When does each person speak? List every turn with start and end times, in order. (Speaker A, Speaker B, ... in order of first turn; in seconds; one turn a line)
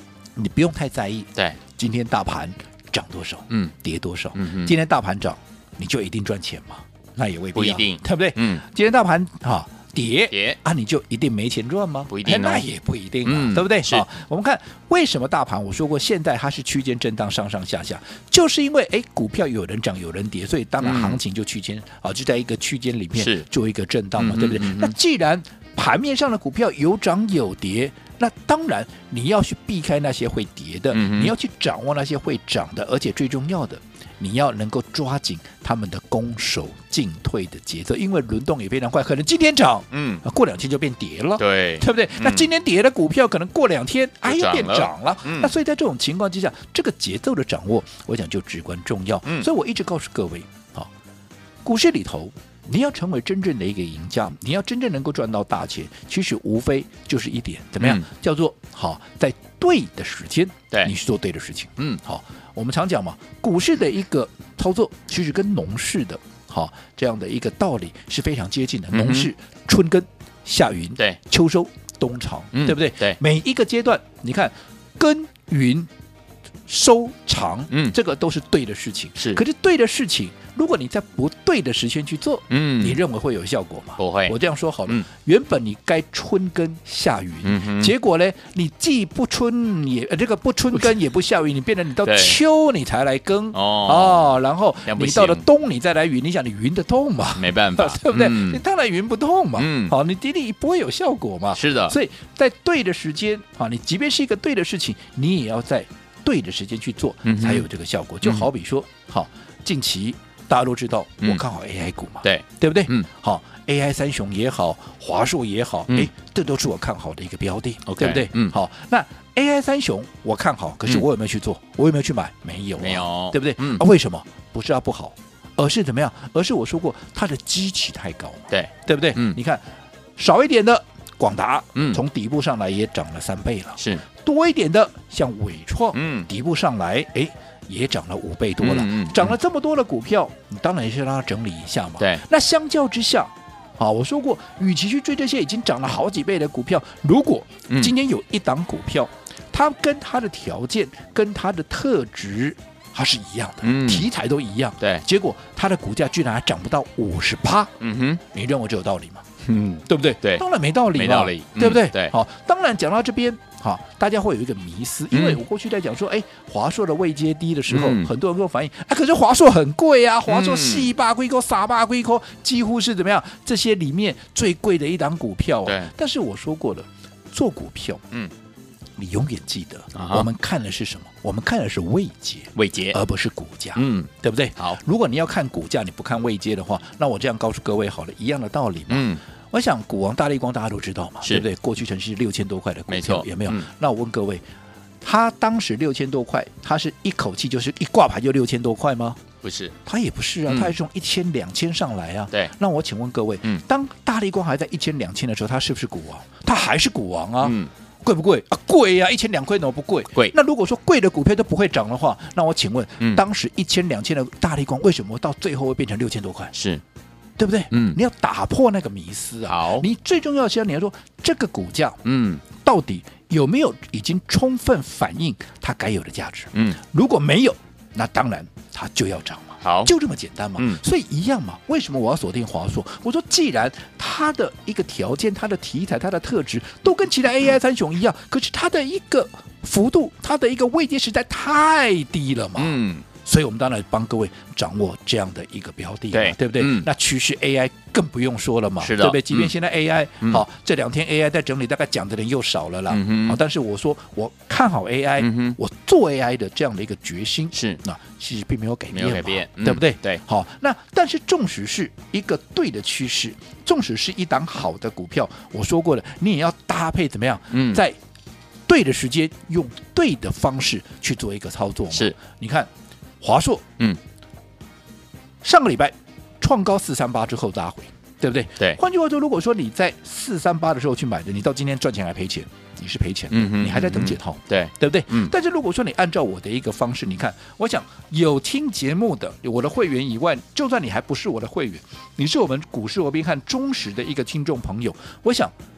Speaker A: 0.3-50.9
Speaker B: 4.3-4.7
Speaker B: 7.5-8.6
Speaker B: 10.3-10.6
Speaker B: 12.1-12.7
Speaker B: 13.2-14.0
Speaker B: 20.8-21.2
Speaker B: 23.1-23.4
Speaker B: 24.1-24.9
Speaker B: 30.9-31.3
Speaker B: 39.9-40.2
Speaker B: 41.4-42.5
Speaker B: 44.2-45.5
Speaker A: 51.6-75.9
Speaker B: 57.8-58.0
Speaker B: 68.9-69.3
Speaker B: 72.5-73.2
Speaker A: 76.7-129.6
Speaker B: 82.5-83.0
Speaker B: 84.0-84.3
Speaker B: 87.4-87.9
Speaker B: 92.0-92.4
Speaker B: 93.5-94.3
Speaker B: 94.8-95.5
Speaker B: 97.4-98.6
Speaker B: 99.6-99.9
Speaker B: 101.5-102.0
Speaker B: 107.2-107.7
Speaker B: 112.2-113.0
Speaker B: 117.9-118.5
Speaker B: 122.8-123.8
Speaker B: 128.5-129.4
Speaker A: 130.2-157.7
Speaker B: 131.7-132.0
Speaker B: 133.8-134.0
Speaker B: 135.9-136.3
Speaker B: 138.6-139.4
Speaker B: 153.6-154.1
Speaker B: 157.8-158.2
Speaker A: 158.2-159.2
Speaker B: 159.4-162.1
Speaker A: 159.8-178.0
Speaker B: 165.1-165.4
Speaker B: 167.7-168.1
Speaker B: 170.3-170.9
Speaker A: 179.0-194.4
Speaker B: 179.9-180.3
Speaker B: 182.6-183.0
Speaker B: 183.7-184.8
Speaker B: 188.9-189.2
Speaker B: 192.9-193.7
Speaker A: 195.0-199.2
Speaker B: 199.4-199.7
Speaker A: 199.8-216.5
Speaker B: 200.5-200.7
Speaker B: 207.4-207.7
Speaker B: 216.5-216.8
Speaker A: 217.4-268.0
Speaker B: 217.7-218.0
Speaker B: 219.5-219.9
Speaker B: 222.0-222.4
Speaker B: 229.6-229.9
Speaker B: 242.6-243.1
Speaker B: 246.1-246.9
Speaker B: 248.8-249.5
Speaker B: 252.9-253.4
Speaker B: 255.2-255.6
Speaker B: 257.5-257.8
Speaker B: 258.9-260.2
Speaker B: 267.5-267.8
Speaker A: 268.7-272.7
Speaker A: 273.2-273.6
Speaker A: 275.4-295.5
Speaker B: 283.3-285.3